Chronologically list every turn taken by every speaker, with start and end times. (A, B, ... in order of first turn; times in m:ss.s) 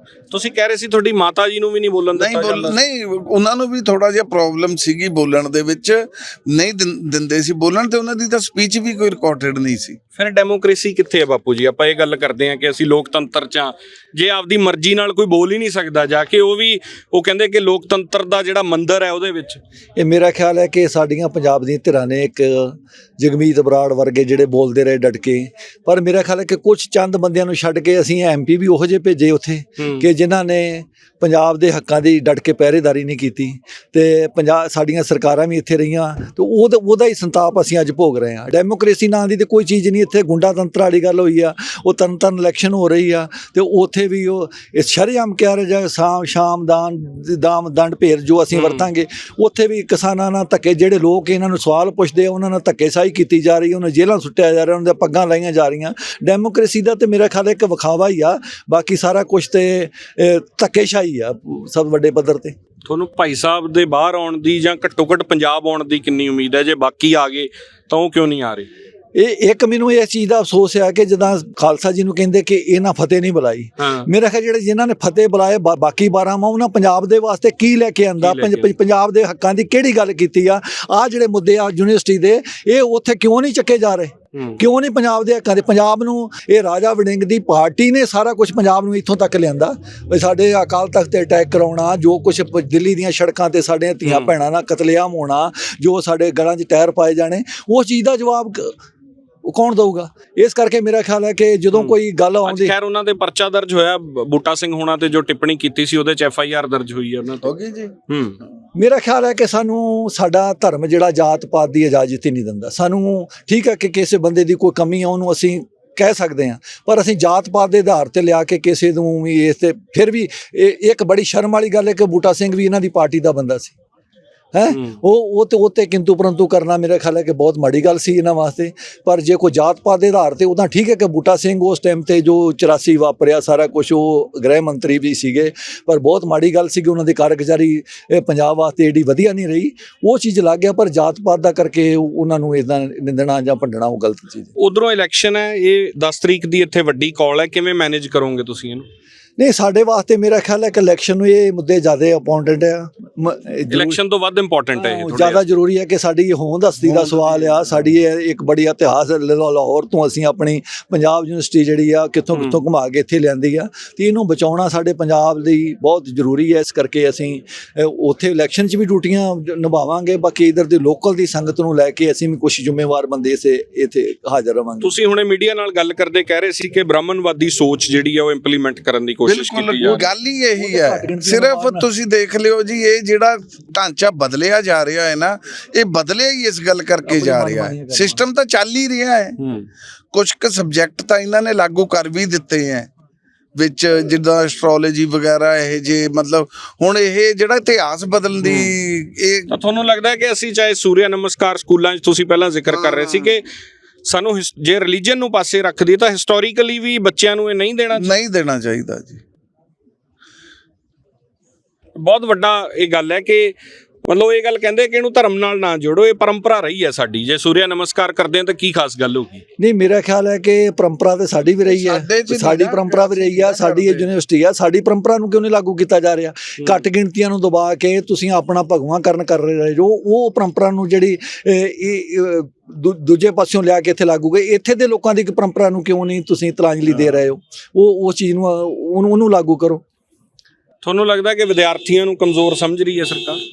0:00.3-0:02.8 A
0:02.1-0:10.0 B
0:10.2-0:19.6 A
0:20.0-1:02.6 C
0:29.8-0:30.1 A
0:48.5-0:48.9 A
1:02.8-1:08.7 A
1:09.2-1:38.7 C
1:13.8-1:14.1 A
1:18.2-1:18.7 A
1:24.3-1:24.6 A
1:34.1-1:34.3 A
1:39.4-1:42.7 C
1:41.7-1:47.5 A
1:47.4-1:47.9 B
1:48.1-1:48.4 A
1:48.8-2:03.7 C
2:04.5-2:24.5 C
2:04.7-2:05.0 A
2:24.6-2:28.8 A
2:29.4-2:34.0 C
2:33.7-2:35.4 A
2:34.7-2:54.9 C
2:36.8-2:37.7 A
2:42.3-2:42.6 A
2:54.8-3:00.0 A
2:59.2-3:09.4 B
2:59.8-3:01.9 C
3:07.1-3:08.2 C
3:09.4-3:09.7 A
3:10.1-3:12.9 B
3:13.6-3:19.5 B
3:18.4-3:18.7 A
3:19.5-3:23.4 A
3:22.7-3:23.4 B
3:24.1-3:28.1 A
3:28.0-3:29.2 B
3:32.0-3:33.5 A
3:34.0-3:39.4 A
3:39.6-3:59.8 C
3:41.7-3:44.1 B
4:00.8-4:03.4 A